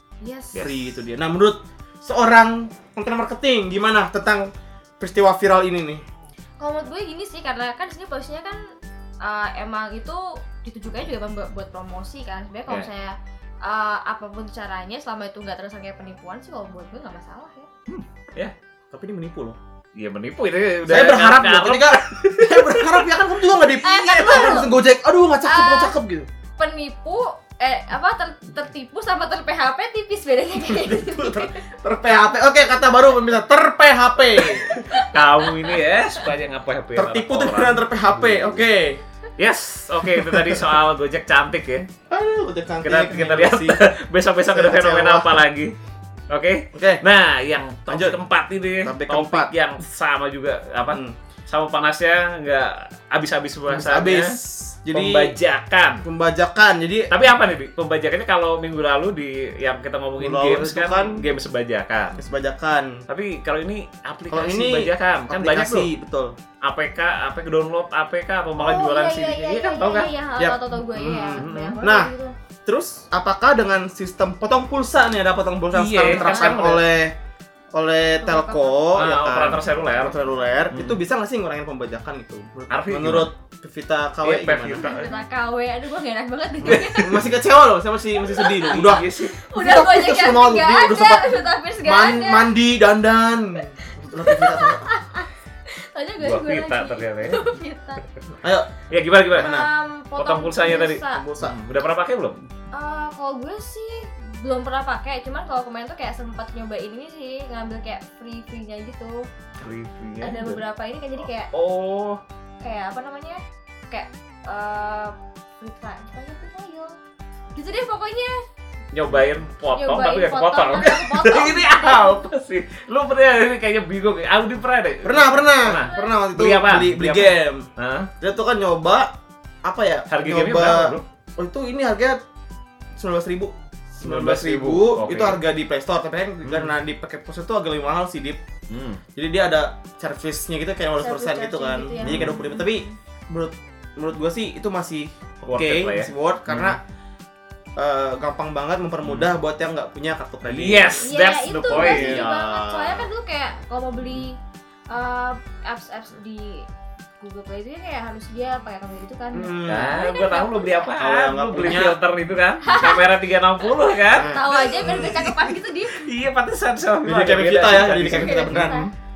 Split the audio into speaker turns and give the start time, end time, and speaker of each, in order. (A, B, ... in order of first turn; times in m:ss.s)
0:00.2-0:00.6 A
0:00.5-0:00.9 B
0:00.6-0:06.0 C
0:06.6-0:08.6 A
0:09.2-0:17.7 A
0:17.9-0:18.5 B
0:18.9-0:19.6 C
0:20.0-0:23.1 B
0:20.9-0:26.3 C
0:23.8-0:24.7 A
0:25.4-0:25.9 A
0:26.6-0:31.6 A
0:30.7-0:34.8 C
0:34.4-0:35.8 A
0:34.8-0:38.6 B
0:36.9-0:39.0 C
0:39.4-0:41.9 B
0:40.1-0:40.8 C
0:42.1-0:43.8 C
0:42.8-0:45.7 B
0:44.5-0:45.4 C
0:46.3-0:54.3 B
0:46.7-0:47.0 C
0:47.9-0:48.2 C
0:48.8-0:49.5 C
0:53.7-0:55.3 C
0:54.9-0:56.0 B
0:56.0-0:57.1 C
0:57.1-1:02.2 B
1:00.2-1:01.2 C
1:02.2-1:03.0 C
1:03.1-1:05.9 B
1:04.3-1:06.3 C
1:06.6-1:10.1 B
1:08.6-1:12.3 A
1:09.8-1:12.1 C
1:11.4-1:11.8 B
1:12.6-1:17.1 C
1:15.7-1:16.8 B
1:16.1-1:16.6 A
1:17.7-1:24.9 C
1:18.2-1:19.0 A
1:18.9-1:20.2 B
1:20.7-1:21.0 B
1:22.7-1:23.3 B
1:24.2-1:25.1 B
1:24.8-1:27.3 A
1:26.6-1:27.0 B
1:26.7-1:34.9 C
1:28.2-1:32.5 A
1:28.7-1:29.4 B
1:33.8-1:38.0 A
1:36.2-1:37.4 B
1:38.4-1:38.7 C
1:38.9-1:39.6 B
1:39.3-1:39.7 C
1:39.4-1:41.2 A
1:40.2-1:42.4 B
1:41.2-1:41.6 C
1:42.7-1:49.2 A
1:49.6-1:50.6 B
1:50.2-1:51.5 A
1:51.5-1:52.2 B
1:52.6-1:56.9 A
1:57.5-1:58.3 A
1:58.9-2:08.1 B
1:59.7-2:02.2 A
2:05.0-2:07.7 C
2:05.7-2:06.2 A
2:08.2-2:09.1 C
2:09.6-2:12.2 C
2:10.1-2:11.0 B
2:13.0-2:18.4 C
2:14.0-2:15.4 B
2:16.4-2:16.7 B
2:18.7-2:19.0 B
2:19.2-2:26.8 C
2:21.0-2:22.9 A
2:22.0-2:22.4 B
2:25.5-2:26.8 B
2:27.8-2:31.1 C
2:29.0-2:29.3 B
2:30.4-2:32.3 B
2:31.0-2:34.3 A
2:31.7-2:33.1 C
2:34.9-2:36.6 A
2:37.2-2:40.9 A
2:39.3-2:40.0 C
2:39.7-2:48.9 B
2:41.0-2:42.0 C
2:42.6-2:43.0 A
2:44.1-2:45.3 C
2:44.2-2:46.0 A
2:47.0-2:48.8 C
2:48.0-2:48.9 A